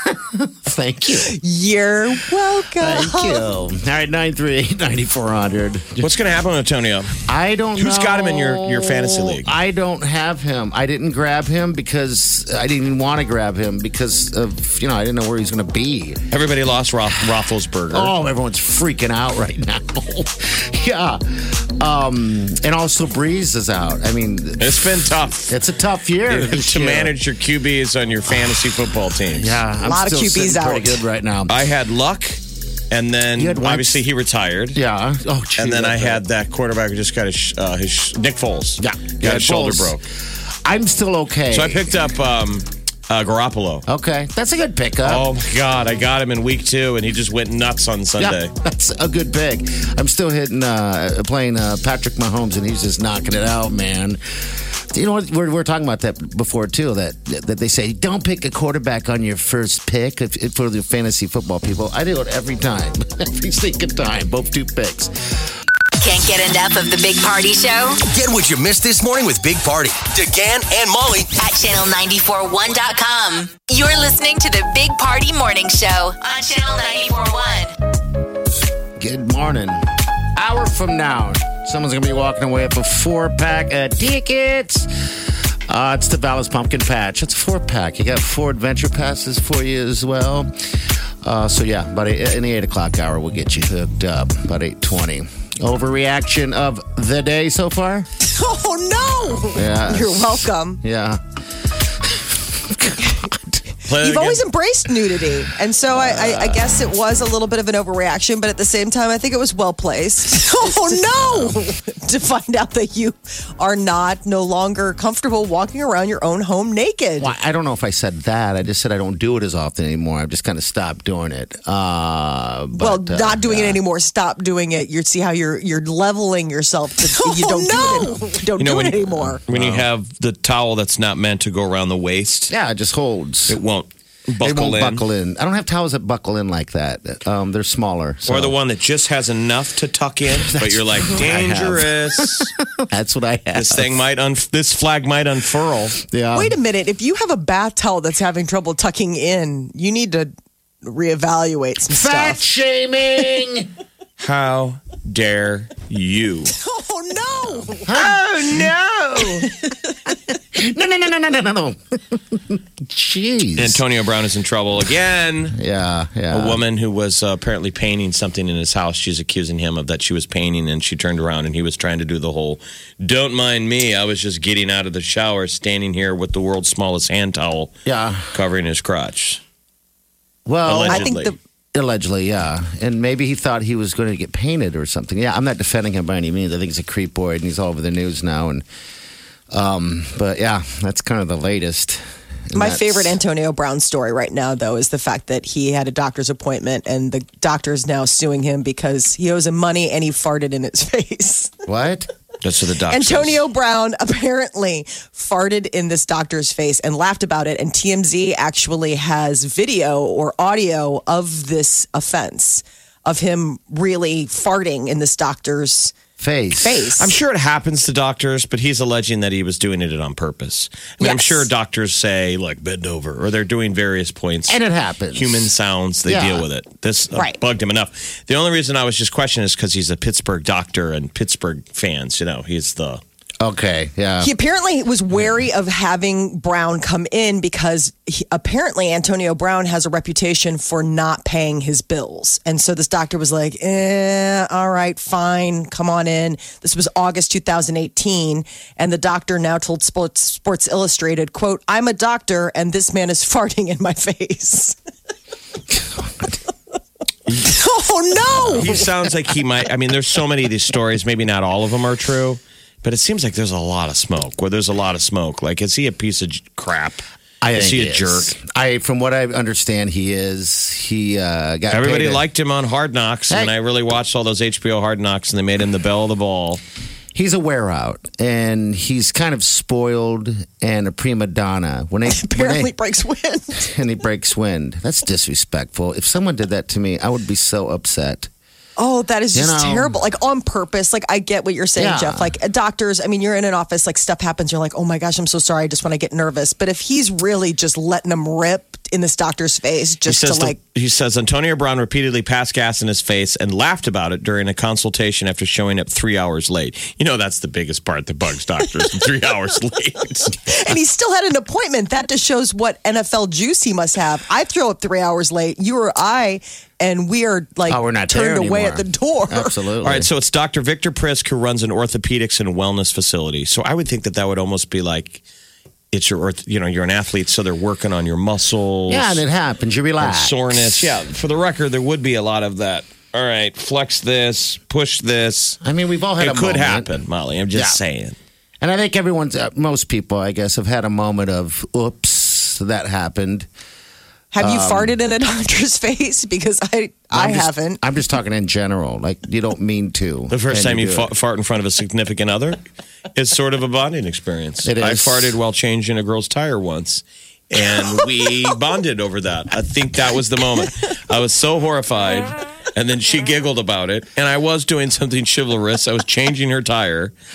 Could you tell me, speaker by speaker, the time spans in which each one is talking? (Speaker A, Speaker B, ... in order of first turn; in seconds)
Speaker A: 0.1-1.3, 2.7-6.1, 7.2-16.2, 17.9-24.9, 25.5-27.1, 28.3-31.7, 33.4-34.0, 34.7-36.2, 38.8-40.0, 40.6-41.9, 43.9-45.3, 48.2-54.2, 54.9-65.3, 79.0-79.8, 80.3-84.9, 85.7-90.5, 91.2-98.1, 99.5-101.2, 101.8-103.7, 105.9-106.6, 110.8-111.6, 117.2-123.8, 127.2-128.3, 129.5-129.9, 132.5-133.6, 134.4-138.5, 140.3-144.0, 146.0-146.5, 151.9-153.7, 157.8-159.5, 160.3-163.8, 165.5-166.6, 177.8-178.3, 180.4-181.1, 181.7-188.6, 189.5-193.2, 201.7-202.1, 216.2-216.8, 224.5-225.5, 226.0-226.4, 233.4-234.3, 255.7-256.3, 267.4-272.2, 277.1-282.7, 283.6-288.3, 289.3-290.0, 291.8-292.4, 317.7-320.1, 328.9-331.0, 335.6-336.9, 337.5-337.8, 338.6-343.5, 344.4-344.9, 347.1-351.1, 354.6-355.4
Speaker B: 1.1-3.5, 29.8-31.0, 98.2-100.8, 104.0-117.3, 122.8-129.4, 146.3-150.3, 150.8-152.4, 156.6-158.7, 159.2-159.4, 180.8-181.3, 192.5-201.5, 202.9-215.9, 216.6-217.1, 221.0-221.5, 234.2-254.7, 257.3-258.9, 282.1-283.6, 288.8-300.6, 310.4-319.5, 344.3-347.8
Speaker C: 6.0-7.1, 7.8-9.5, 16.3-18.1, 24.6-25.6, 26.3-29.6, 31.5-34.8, 35.6-40.0, 41.5-43.9, 45.0-48.5, 103.8-104.4, 128.6-132.5, 133.5-135.0, 138.3-142.5, 143.5-146.0, 154.2-156.5, 163.6-165.6, 166.3-177.7, 178.3-179.4, 180.6-181.3, 202.4-203.4, 216.9-224.6, 225.1-233.0, 258.5-267.0, 267.5-268.3, 271.7-276.6, 300.1-310.3, 319.8-325.2, 325.9-329.2, 330.0-335.6, 336.2-338.1, 350.3-352.6, 353.1-367.1
Speaker D: 66.0-68.0, 71.3-77.7
Speaker E: 68.2-71.1